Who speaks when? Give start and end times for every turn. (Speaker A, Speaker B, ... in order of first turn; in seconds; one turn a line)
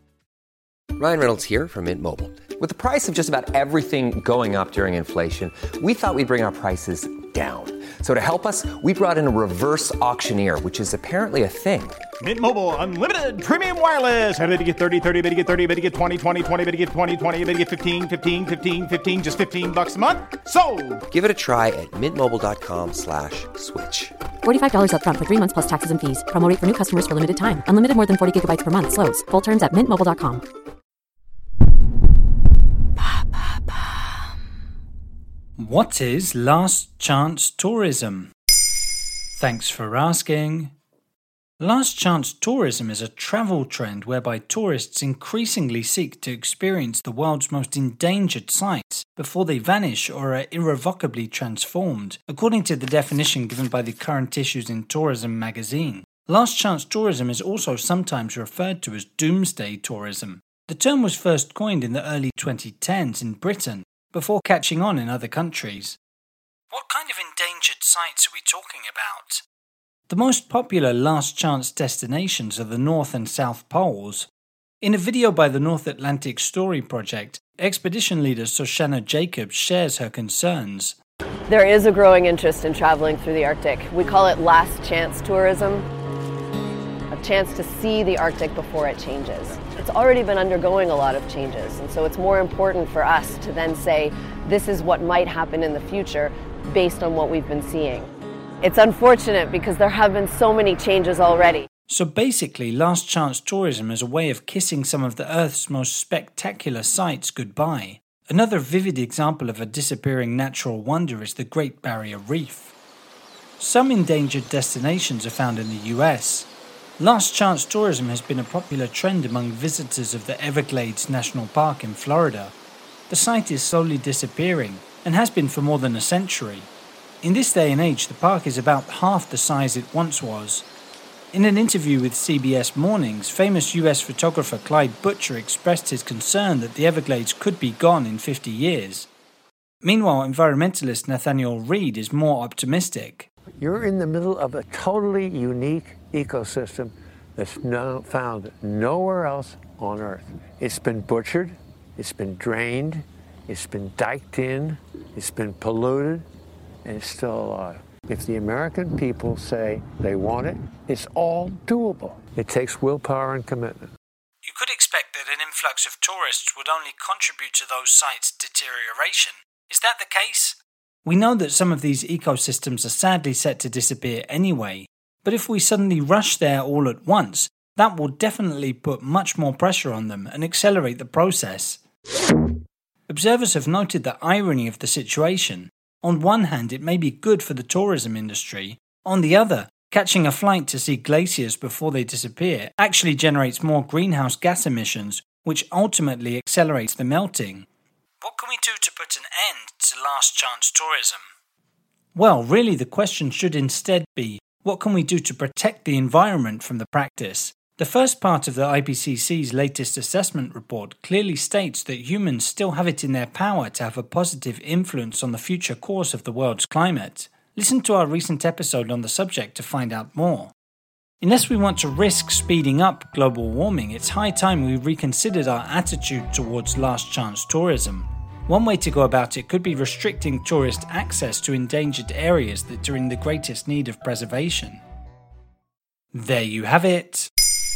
Speaker A: 1.0-11.9
Speaker B: 12.2-21.0
Speaker A: 21.1-24.1
Speaker C: 24.4-30.4
Speaker D: 35.6-38.3
Speaker D: 39.4-40.7
Speaker D: 41.6-66.0
Speaker D: 66.7-69.4
Speaker D: 70.1-74.3
Speaker D: 74.8-81.0
Speaker E: 81.5-85.8
Speaker E: 87.1-98.1
Speaker E: 98.6-101.7
Speaker D: 101.9-112.7
Speaker D: 113.6-122.5
Speaker D: 123.1-126.7
Speaker D: 127.2-130.7
Speaker D: 131.3-139.1
Speaker D: 139.8-143.3
Speaker F: 143.6-156.2
Speaker F: 156.8-163.9
Speaker D: 164.4-181.8
Speaker D: 183.1-197.7
Speaker D: 198.2-201.3
Speaker D: 202.1-220.5
Speaker D: 221.2-234.8
Speaker D: 236.1-237.3